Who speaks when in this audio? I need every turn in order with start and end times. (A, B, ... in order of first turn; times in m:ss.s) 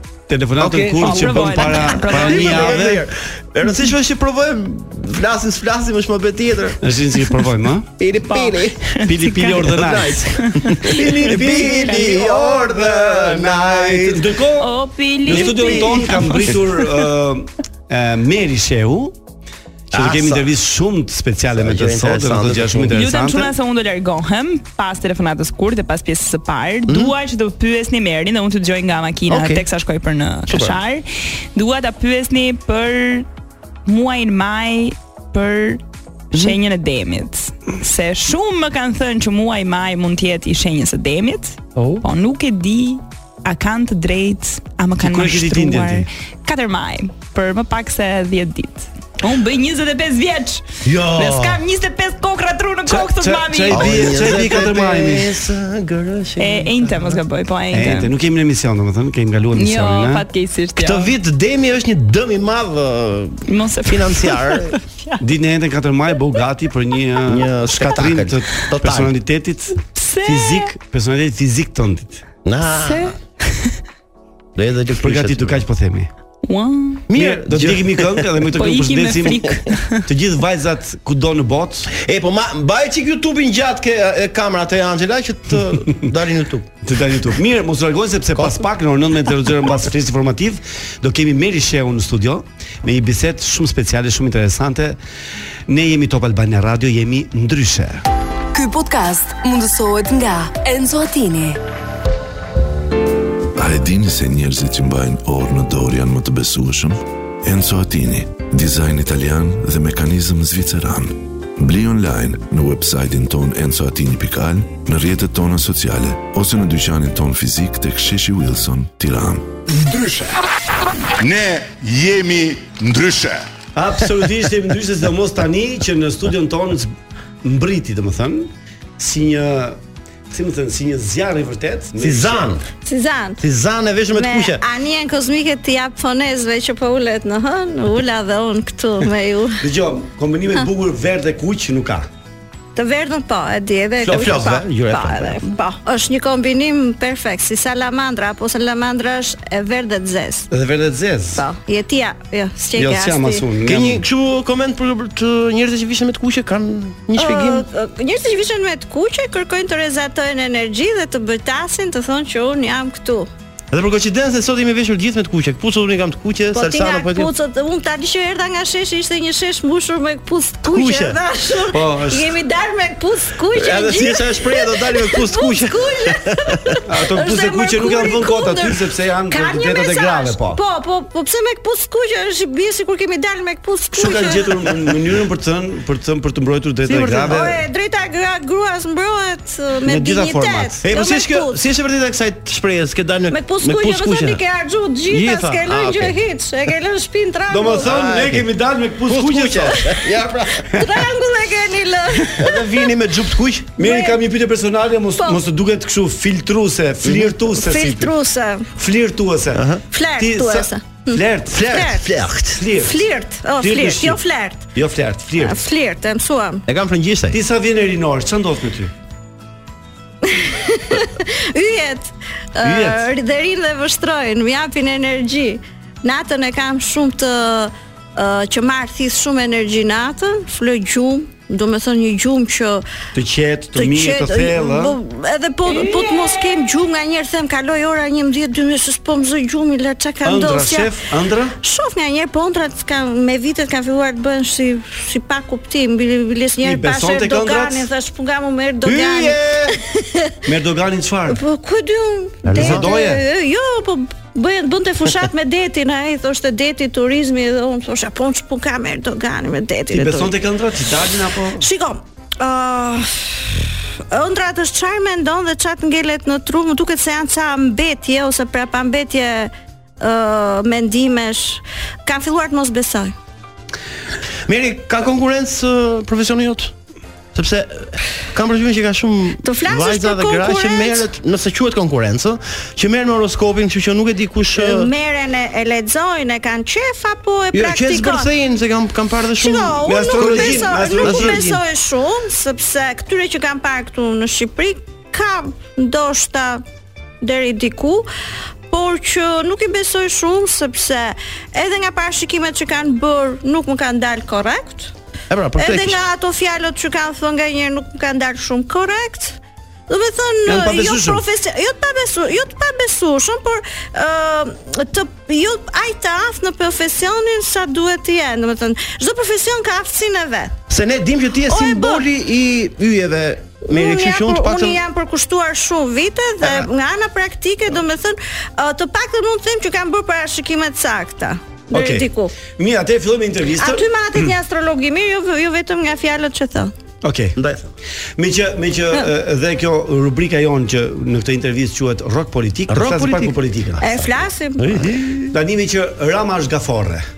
0:00.3-0:03.0 A
0:00.6-0:06.8 B
0:01.0-0:02.9 C
0:06.8-0:07.9 A
0:08.0-0:08.9 B
0:08.2-0:11.8 C
0:09.0-0:10.2 A
0:09.6-0:14.4 B
0:10.8-0:19.2 A
0:14.6-0:17.0 C
0:15.3-0:16.1 B
0:19.9-0:20.5 B
0:19.9-0:23.5 A
0:21.5-0:23.0 B
0:22.9-0:33.3 C
0:26.9-0:27.1 B
0:29.3-0:29.6 B
0:30.5-0:30.8 B
0:33.8-0:54.3 C
0:41.8-0:42.0 B
0:45.0-0:46.1 A
0:50.8-0:51.6 B
0:52.8-0:55.4 A
0:53.7-0:57.2 B
0:56.4-0:58.1 C
0:57.7-1:00.2 A
0:59.6-1:01.1 C
1:00.8-1:04.7 B
1:03.5-1:05.2 C
1:05.2-1:12.2 A
1:07.3-1:09.1 B
1:09.9-1:10.7 C
1:12.4-1:13.2 B
1:12.7-1:13.7 C
1:14.6-1:15.6 B
1:15.0-1:16.1 A
1:16.4-1:17.0 C
1:17.1-1:18.3 B
1:17.1-1:19.5 A
1:18.5-1:20.0 C
1:20.0-1:21.9 A
1:21.9-1:26.7 B
1:26.8-1:35.0 A
1:28.4-1:28.6 B
1:35.7-1:38.0 A
1:38.5-1:41.6 D
1:43.6-1:59.5 E
1:59.7-2:00.4 F
2:01.2-2:03.4 F
2:03.7-2:09.8 A
2:10.3-2:12.5 A
2:12.0-2:12.7 B
2:12.8-2:13.4 G
2:13.4-2:14.6 B
2:14.1-2:19.6 G
2:19.6-2:22.1 A
2:22.7-2:30.5 G
2:24.0-2:25.4 B
2:30.5-2:31.4 A
2:31.4-2:33.4 G
2:32.8-2:34.0 A
2:33.6-2:37.6 B
2:37.1-2:43.3 G
2:43.7-2:47.3 B
2:46.5-3:04.6 G
2:50.6-2:51.2 B
2:51.7-2:52.3 A
2:53.5-2:56.7 B
2:56.8-3:00.6 A
3:04.0-3:07.6 A
3:06.8-3:07.5 B
3:07.3-3:11.6 G
3:09.8-3:10.8 A
3:10.8-3:14.4 B
3:13.3-3:17.9 G
3:15.1-3:16.2 B
3:17.5-3:19.9 A
3:17.8-3:18.5 B
3:19.1-3:20.8 B
3:20.7-3:22.9 G
3:22.4-3:23.8 B
3:23.8-3:28.1 A
3:23.8-3:24.2 G
3:27.6-3:28.7 G
3:28.8-3:31.8 A
3:29.5-3:29.8 B
3:29.9-3:32.0 G
3:31.5-3:32.6 B
3:32.5-3:33.0 A
3:32.7-3:34.6 G
3:33.6-3:34.2 A
3:34.7-3:35.6 A
3:35.4-3:36.6 G
3:36.7-3:37.4 B
3:37.3-3:38.9 A
3:40.2-3:52.8 G
3:42.6-3:43.0 A
3:53.1-3:55.0 A
3:53.7-4:01.0 G
4:00.2-4:01.6 A
4:01.6-4:10.3 G
4:06.6-4:07.9 A
4:08.8-4:09.8 A
4:10.4-4:11.4 A
4:11.3-4:20.3 G
4:12.4-4:12.9 B
4:12.5-4:13.2 A
4:19.9-4:21.6 A
4:21.6-4:23.5 G
4:24.1-4:33.1 G
4:34.4-4:36.7 B
4:37.3-4:44.9 B
4:39.4-4:41.0 G
4:44.6-4:48.3 G
4:47.5-4:51.6 B
4:49.4-4:56.6 G
4:49.8-4:51.4 A
4:57.2-4:58.1 G
4:58.7-5:04.9 G
5:05.3-5:06.0 B
5:05.6-5:20.6 G
5:10.4-5:11.2 A
5:20.7-5:24.8 B
5:21.5-5:22.0 G
5:23.6-5:32.3 G
5:26.4-5:26.7 B
5:31.7-5:34.3 A
5:33.6-5:36.7 G
5:37.0-5:37.4 A
5:37.4-5:37.7 B
5:38.2-5:43.9 A
5:42.7-5:45.4 B
5:43.8-5:44.7 G
5:45.3-5:47.0 A